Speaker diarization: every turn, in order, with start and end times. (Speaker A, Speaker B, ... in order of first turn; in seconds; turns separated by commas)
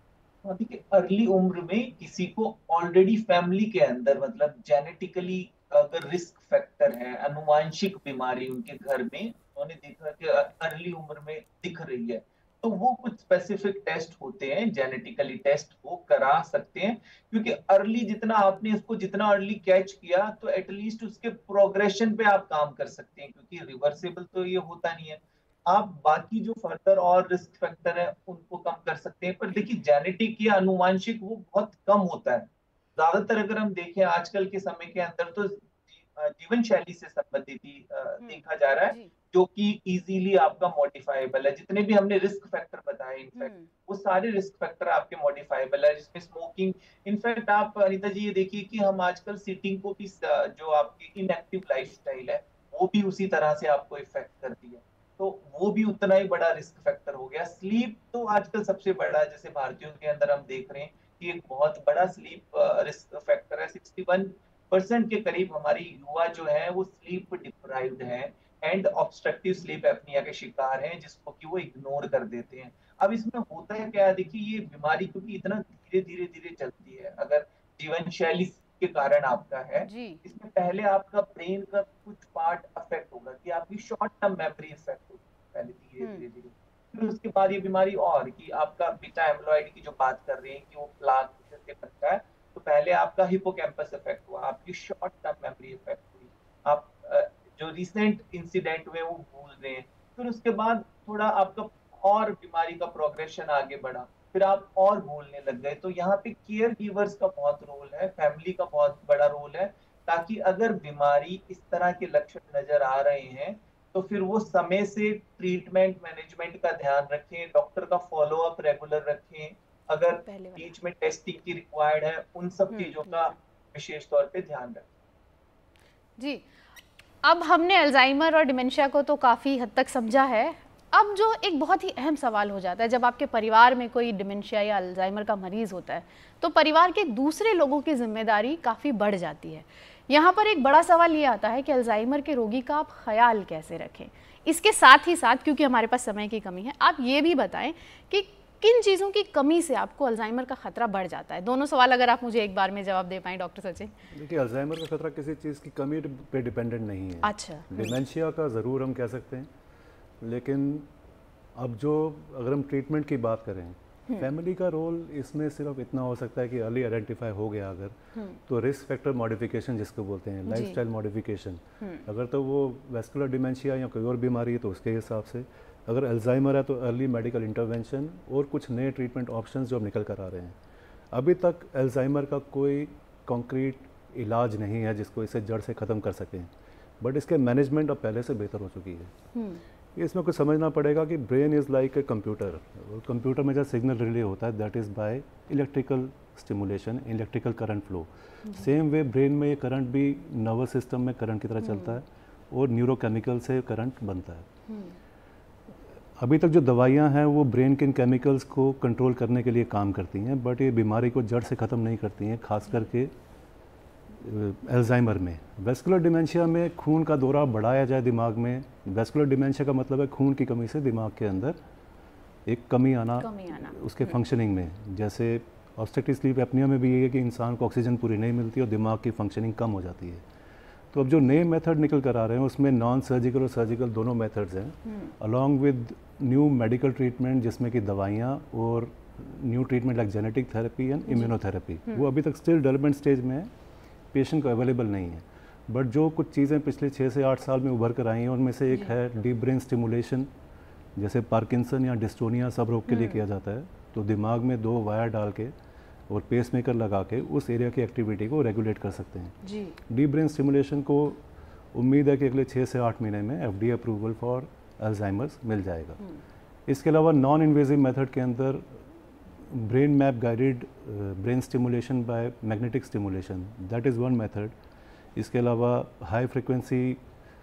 Speaker A: 0.4-124.9, Speaker B: 38.2-39.1, Speaker B: 43.4-43.7, Speaker B: 79.8-80.2, Speaker B: 86.0-86.2, Speaker B: 120.2-120.7, Speaker B: 122.7-123.3, Speaker B: 126.2-126.5, Speaker B: 127.2-153.9, Speaker C: 154.1-159.5, Speaker B: 157.2-158.0, Speaker C: 160.2-160.9, Speaker C: 161.5-180.6, Speaker B: 170.5-170.8, Speaker B: 171.8-172.1, Speaker C: 181.1-189.1, Speaker B: 189.3-189.6, Speaker C: 189.9-204.5, Speaker B: 201.6-202.0, Speaker B: 204.7-205.0, Speaker C: 206.2-213.1, Speaker C: 214.2-221.6, Speaker C: 222.4-230.2, Speaker B: 223.2-224.1, Speaker C: 230.9-243.5, Speaker B: 234.8-235.1, Speaker B: 241.1-241.3, Speaker C: 244.1-250.3, Speaker C: 250.9-255.5, Speaker B: 252.9-253.2, Speaker C: 256.1-266.0, Speaker B: 259.4-259.8, Speaker C: 266.7-274.5, Speaker C: 275.1-277.0